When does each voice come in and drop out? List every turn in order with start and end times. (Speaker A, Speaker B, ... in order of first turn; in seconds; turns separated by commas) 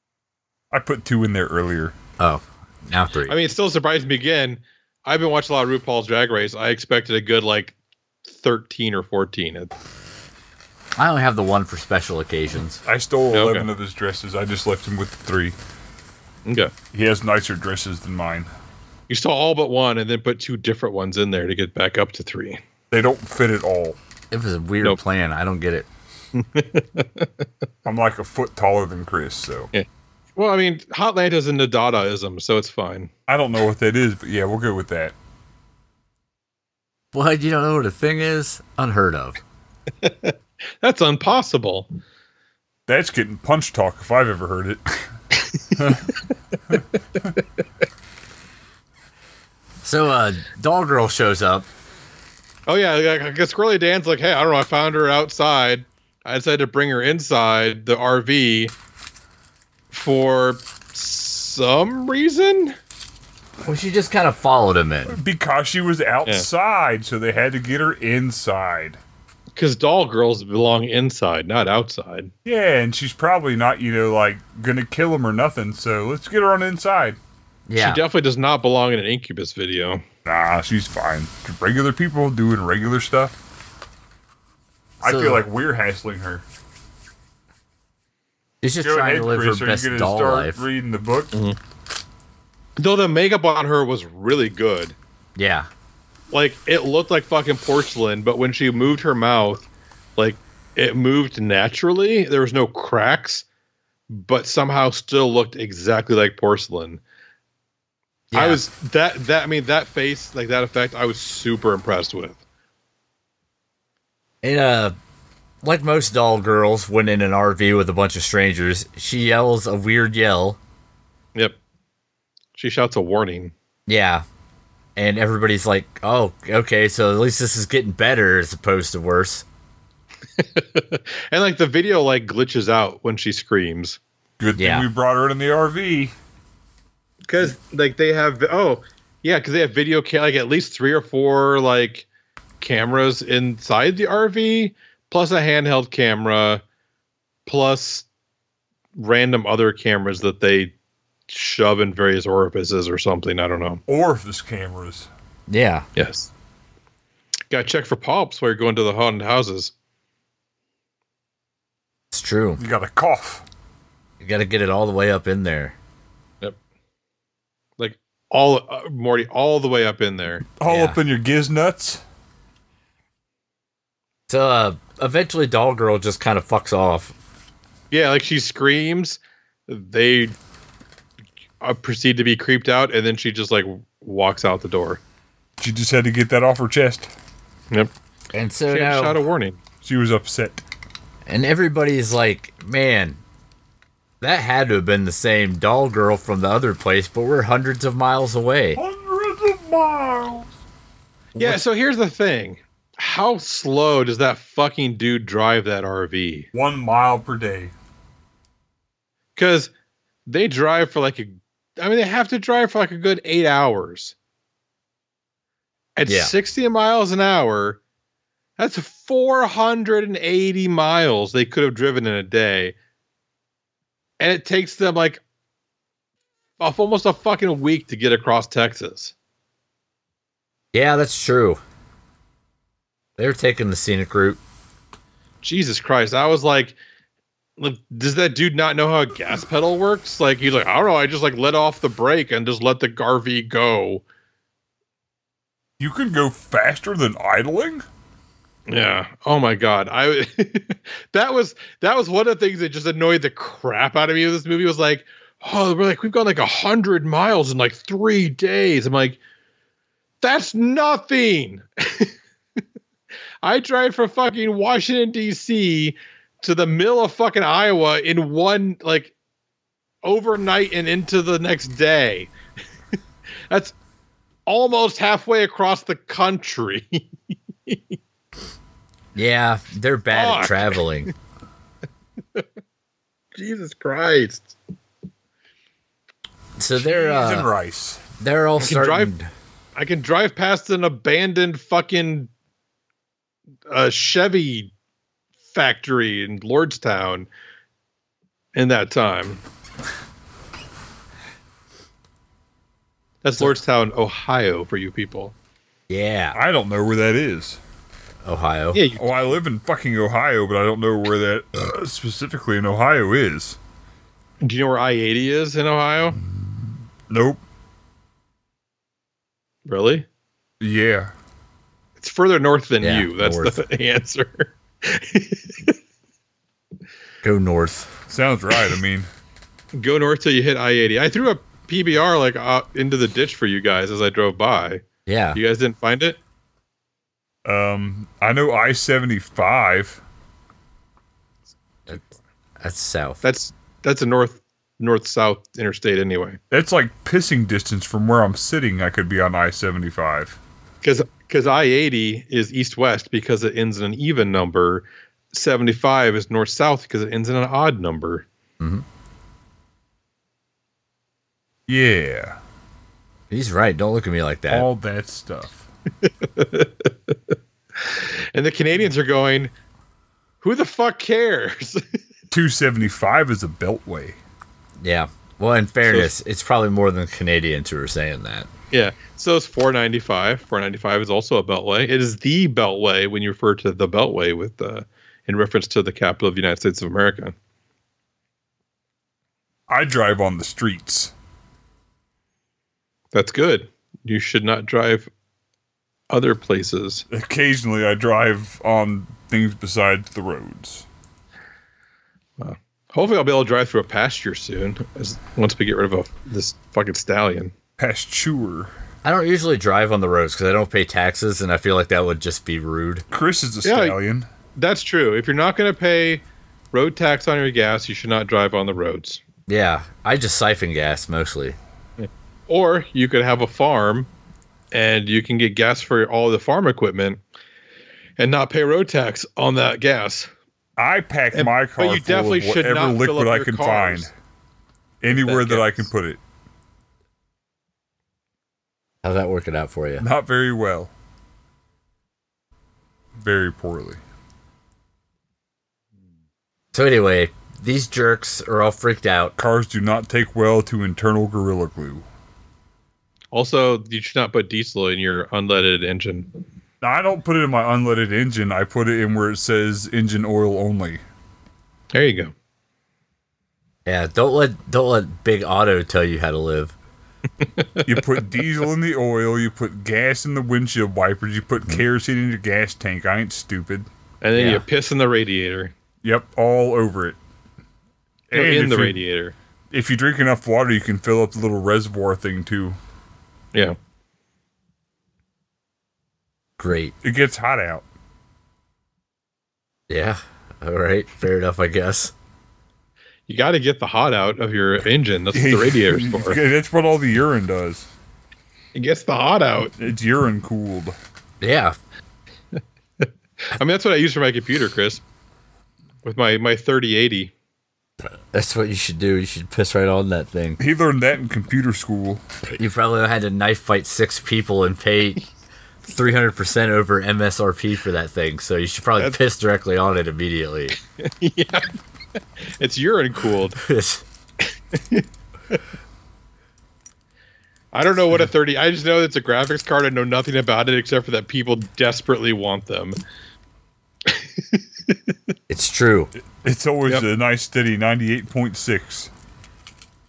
Speaker A: 0.7-1.9, Speaker B: 2.2-3.4, Speaker C: 3.3-7.7, Speaker C: 8.2-9.7, Speaker B: 11.0-12.8, Speaker A: 12.8-15.6, Speaker C: 13.3-13.7, Speaker C: 16.4-16.7, Speaker A: 16.9-18.5, Speaker C: 19.1-22.6, Speaker A: 22.9-24.0, Speaker B: 24.3-25.9, Speaker C: 26.3-27.3, Speaker A: 27.8-29.7, Speaker C: 29.7-33.1, Speaker A: 33.3-35.1, Speaker B: 37.1-39.4, Speaker C: 40.0-41.9, Speaker A: 42.9-45.0, Speaker A: 45.8-46.1, Speaker B: 49.8-51.7, Speaker C: 52.7-58.7, Speaker C: 59.9-62.8, Speaker B: 63.6-65.2, Speaker A: 65.1-69.0, Speaker C: 69.5-72.3, Speaker A: 72.4-77.2, Speaker B: 77.7-78.0, Speaker C: 77.8-80.0, Speaker A: 80.2-83.3, Speaker A: 85.0-86.4, Speaker B: 85.0-85.4, Speaker B: 88.6-90.6, Speaker A: 88.8-91.3, Speaker C: 92.8-95.0, Speaker B: 95.3-95.7, Speaker C: 96.3-103.4, Speaker C: 104.1-107.0, Speaker B: 108.3-108.6, Speaker C: 108.3-112.4, Speaker B: 114.4-114.9, Speaker B: 115.6-120.6, Speaker C: 122.5-123.5, Speaker B: 123.9-124.2, Speaker B: 125.0-129.4, Speaker C: 130.4-134.0, Speaker A: 134.4-136.1, Speaker B: 134.6-134.8, Speaker C: 137.3-142.1, Speaker C: 142.6-146.6, Speaker C: 147.5-148.1, Speaker C: 148.9-150.7, Speaker C: 151.3-153.8, Speaker A: 153.9-155.1, Speaker B: 155.5-155.9, Speaker C: 155.9-156.3, Speaker C: 157.5-159.7, Speaker B: 162.1-162.6, Speaker A: 162.6-163.4, Speaker B: 164.2-165.7, Speaker C: 167.8-170.4, Speaker A: 170.6-172.0, Speaker B: 170.7-171.0, Speaker B: 174.3-177.1, Speaker C: 177.9-180.3, Speaker C: 181.6-185.0, Speaker A: 185.6-187.1, Speaker B: 188.3-189.2, Speaker C: 188.7-189.6, Speaker A: 189.8-190.6, Speaker B: 191.2-193.2, Speaker B: 194.2-198.8, Speaker A: 198.7-200.5, Speaker A: 201.3-201.6, Speaker C: 201.4-206.5, Speaker A: 206.5-207.7, Speaker C: 209.3-209.7, Speaker C: 210.3-214.1, Speaker C: 216.0-217.8, Speaker B: 216.1-216.3, Speaker C: 218.6-222.7, Speaker C: 224.2-225.2, Speaker C: 226.6-229.1, Speaker B: 230.7-231.6, Speaker B: 233.2-234.4, Speaker C: 235.4-236.8, Speaker C: 237.6-244.0, Speaker A: 245.8-247.8, Speaker C: 248.7-259.2, Speaker C: 260.2-262.1, Speaker C: 263.4-269.1, Speaker C: 270.0-272.3, Speaker C: 273.5-273.7, Speaker C: 274.5-277.0, Speaker B: 279.1-281.1, Speaker C: 280.1-280.9, Speaker C: 283.3-284.5, Speaker B: 286.6-287.5, Speaker A: 286.8-288.0, Speaker B: 288.2-289.3, Speaker C: 288.6-289.1, Speaker C: 289.8-292.3, Speaker C: 293.7-294.7, Speaker C: 295.5-297.3, Speaker C: 298.5-299.4, Speaker C: 303.2-305.3, Speaker B: 305.9-306.4, Speaker A: 306.3-307.6, Speaker B: 308.2-308.8, Speaker C: 308.7-309.2, Speaker A: 308.9-313.6, Speaker C: 314.4-316.2, Speaker A: 317.1-317.4, Speaker C: 319.6-320.1, Speaker A: 320.6-321.1, Speaker C: 322.0-325.8, Speaker B: 322.8-323.6, Speaker B: 327.2-327.9, Speaker A: 328.1-329.1, Speaker C: 329.7-334.8, Speaker B: 335.1-335.4, Speaker C: 335.3-336.2, Speaker A: 337.4-340.0, Speaker B: 342.6-343.2, Speaker C: 343.2-346.4, Speaker A: 346.5-350.4, Speaker C: 350.8-358.2, Speaker B: 358.6-358.8, Speaker A: 361.7-362.4, Speaker B: 363.3-364.7, Speaker A: 364.5-365.7, Speaker C: 366.0-367.1, Speaker C: 367.8-369.5, Speaker C: 370.4-371.8, Speaker A: 372.3-374.2, Speaker B: 374.8-378.5, Speaker C: 375.9-376.1, Speaker C: 378.7-387.3, Speaker A: 389.7-391.1, Speaker C: 393.1-395.1, Speaker C: 396.1-397.0, Speaker A: 397.1-400.9, Speaker C: 402.4-407.5, Speaker A: 407.8-408.7, Speaker B: 409.0-413.0, Speaker A: 413.1-414.3, Speaker C: 413.6-413.9, Speaker C: 414.6-419.2, Speaker B: 419.5-421.6, Speaker C: 422.0-424.1, Speaker C: 424.7-427.2, Speaker C: 428.2-430.3, Speaker A: 430.8-434.1, Speaker C: 431.3-434.1, Speaker A: 435.0-436.2, Speaker C: 435.1-435.9, Speaker B: 439.0-440.0, Speaker A: 440.0-440.9, Speaker A: 443.2-444.0, Speaker B: 446.7-449.3, Speaker A: 449.4-452.0, Speaker C: 453.3-456.3, Speaker A: 456.8-461.0, Speaker C: 461.9-462.3, Speaker B: 463.9-466.7, Speaker C: 467.4-468.0, Speaker A: 467.8-473.9, Speaker C: 474.2-475.7, Speaker B: 474.3-474.6, Speaker A: 476.0-477.2, Speaker A: 478.3-479.0, Speaker C: 478.3-479.3, Speaker A: 479.7-482.8, Speaker B: 486.6-486.9, Speaker A: 487.0-487.8, Speaker B: 489.9-492.1, Speaker C: 493.3-496.4, Speaker A: 495.3-497.9, Speaker C: 498.7-499.7, Speaker A: 499.8-500.9, Speaker B: 501.4-501.8, Speaker C: 503.0-505.0, Speaker C: 506.0-507.3, Speaker B: 508.3-510.6, Speaker A: 510.6-512.2, Speaker B: 512.5-515.2, Speaker B: 515.9-520.8, Speaker C: 521.0-521.7, Speaker C: 522.5-523.6, Speaker B: 523.6-524.0, Speaker C: 524.7-525.6, Speaker C: 527.7-533.0, Speaker C: 534.0-535.0, Speaker B: 535.5-536.1, Speaker A: 536.4-539.1